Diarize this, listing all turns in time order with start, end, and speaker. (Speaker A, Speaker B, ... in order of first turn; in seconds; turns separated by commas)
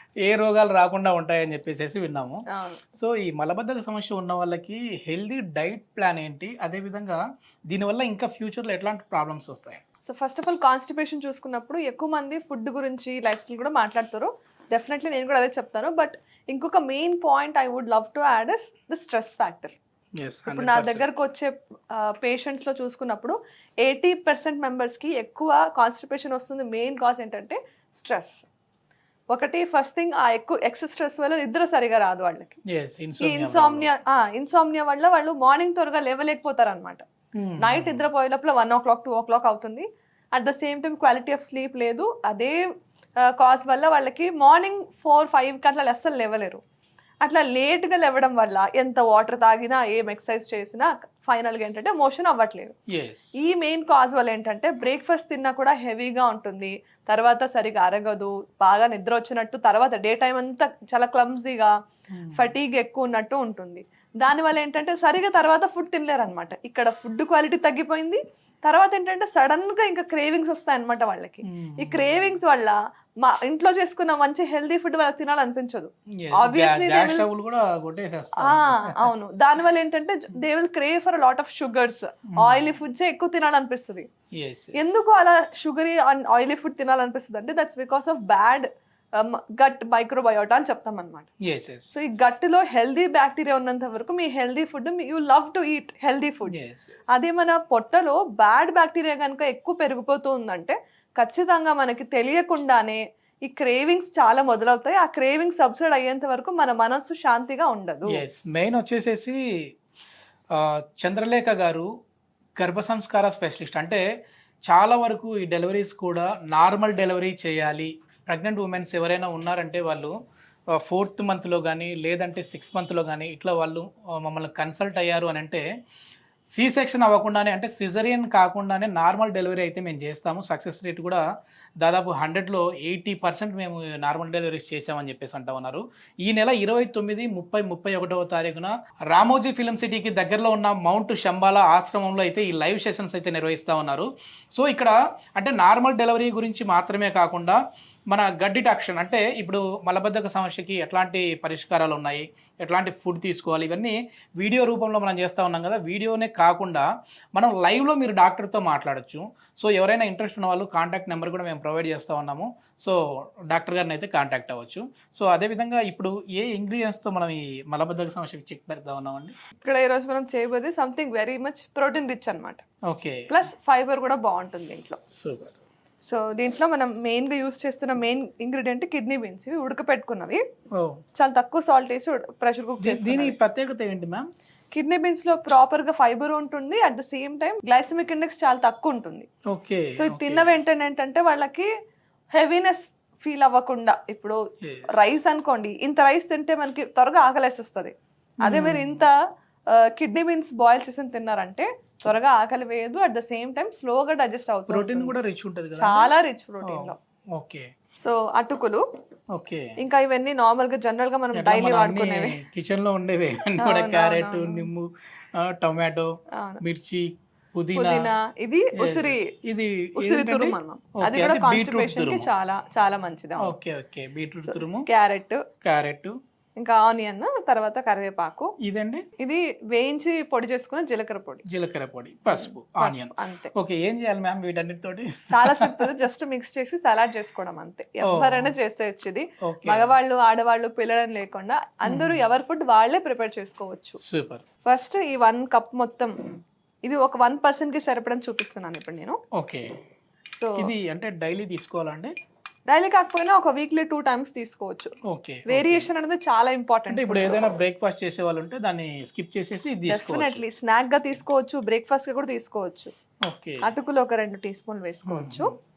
Speaker A: 0.2-2.4, Speaker B: 2.5-2.8, Speaker A: 2.9-9.8, Speaker B: 10.1-19.8, Speaker A: 20.2-21.1, Speaker B: 20.5-28.4, Speaker B: 29.3-32.5, Speaker A: 32.7-33.9, Speaker B: 33.2-37.0, Speaker A: 37.4-38.0, Speaker B: 37.6-42.6, Speaker B: 43.2-46.6, Speaker B: 47.2-52.8, Speaker A: 52.9-53.4, Speaker B: 53.4-61.7, Speaker A: 62.1-62.5, Speaker B: 62.3-77.3, Speaker A: 71.5-72.2, Speaker A: 76.2-79.0, Speaker B: 78.4-84.1, Speaker A: 84.4-84.8, Speaker B: 84.8-91.3, Speaker A: 91.4-91.9, Speaker B: 91.9-108.2, Speaker A: 96.5-97.1, Speaker A: 108.1-109.4, Speaker A: 110.5-111.9, Speaker A: 112.6-114.0, Speaker A: 114.7-120.1, Speaker A: 120.7-125.7, Speaker A: 126.5-131.2, Speaker A: 131.8-169.3, Speaker B: 169.6-172.6, Speaker A: 172.9-173.2, Speaker B: 173.3-175.0, Speaker A: 175.1-175.6, Speaker B: 176.0-180.4, Speaker A: 180.8-181.0, Speaker B: 181.2-183.3, Speaker A: 182.8-184.3, Speaker B: 184.7-189.3, Speaker A: 189.5-190.5, Speaker B: 190.0-191.7, Speaker B: 192.3-194.4, Speaker A: 194.6-194.9, Speaker B: 194.9-199.1, Speaker A: 198.4-199.1, Speaker B: 199.7-205.1, Speaker A: 204.7-206.1, Speaker B: 205.8-207.0, Speaker A: 206.6-207.7, Speaker B: 208.0-208.8, Speaker A: 209.3-209.7, Speaker B: 209.8-212.3, Speaker A: 211.3-218.1, Speaker B: 213.6-214.7, Speaker B: 216.3-216.6, Speaker B: 217.8-219.3, Speaker A: 218.8-222.3, Speaker B: 220.0-223.5, Speaker A: 223.4-224.9, Speaker B: 224.4-225.4, Speaker A: 225.6-226.2, Speaker B: 226.6-228.5, Speaker A: 228.6-229.1, Speaker B: 229.2-231.4, Speaker A: 231.5-235.9, Speaker B: 232.3-233.5, Speaker B: 235.3-244.0, Speaker A: 238.1-238.5, Speaker A: 239.4-239.9, Speaker A: 241.9-242.2, Speaker A: 244.0-244.4, Speaker B: 244.7-246.2, Speaker B: 246.9-249.2, Speaker A: 249.4-249.7, Speaker B: 250.3-250.7, Speaker A: 250.6-252.1, Speaker B: 252.7-254.9, Speaker A: 255.1-255.9, Speaker B: 255.5-257.5, Speaker A: 256.9-260.4, Speaker B: 259.9-262.9, Speaker A: 263.3-263.7, Speaker B: 263.6-265.5, Speaker A: 265.1-265.5